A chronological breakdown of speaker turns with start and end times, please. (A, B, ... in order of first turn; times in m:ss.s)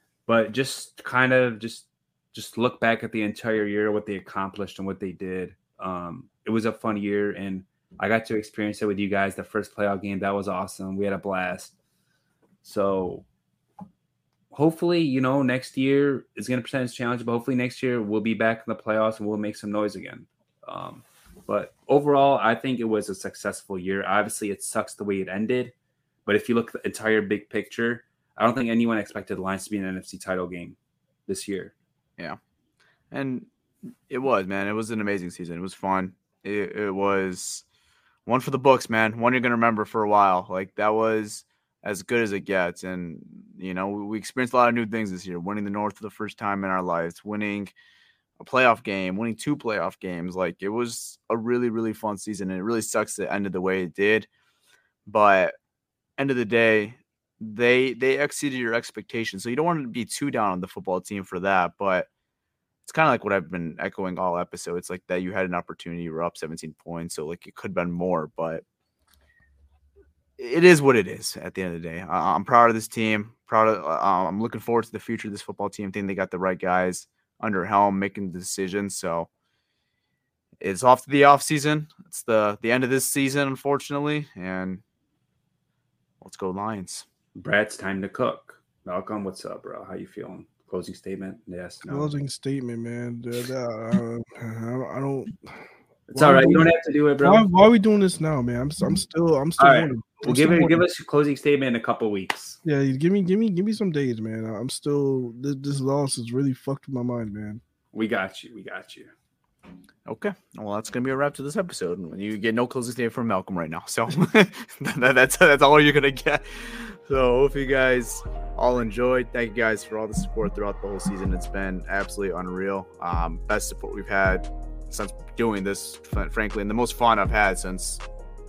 0:00.3-0:11.8 A
0:12.6-0:13.3 A
0:14.5-0:25.8 A
0:26.3-0:31.7 A
0:33.1-0:33.5 B
0:34.1-0:37.6 B
0:38.3-0:47.7 B
0:48.4-0:54.3 B
0:55.1-0:55.6 B
0:56.2-1:02.1 B
1:02.8-1:08.6 B
1:10.4-1:19.3 B
1:20.6-1:24.8 B
1:26.2-1:27.1 B
1:27.4-1:32.1 A
1:31.9-1:35.6 C
1:36.1-1:37.4 A
1:36.1-1:40.8 C
1:39.6-1:42.6 A
1:42.6-1:47.6 C
1:47.9-1:49.1 A
1:50.1-2:08.0 B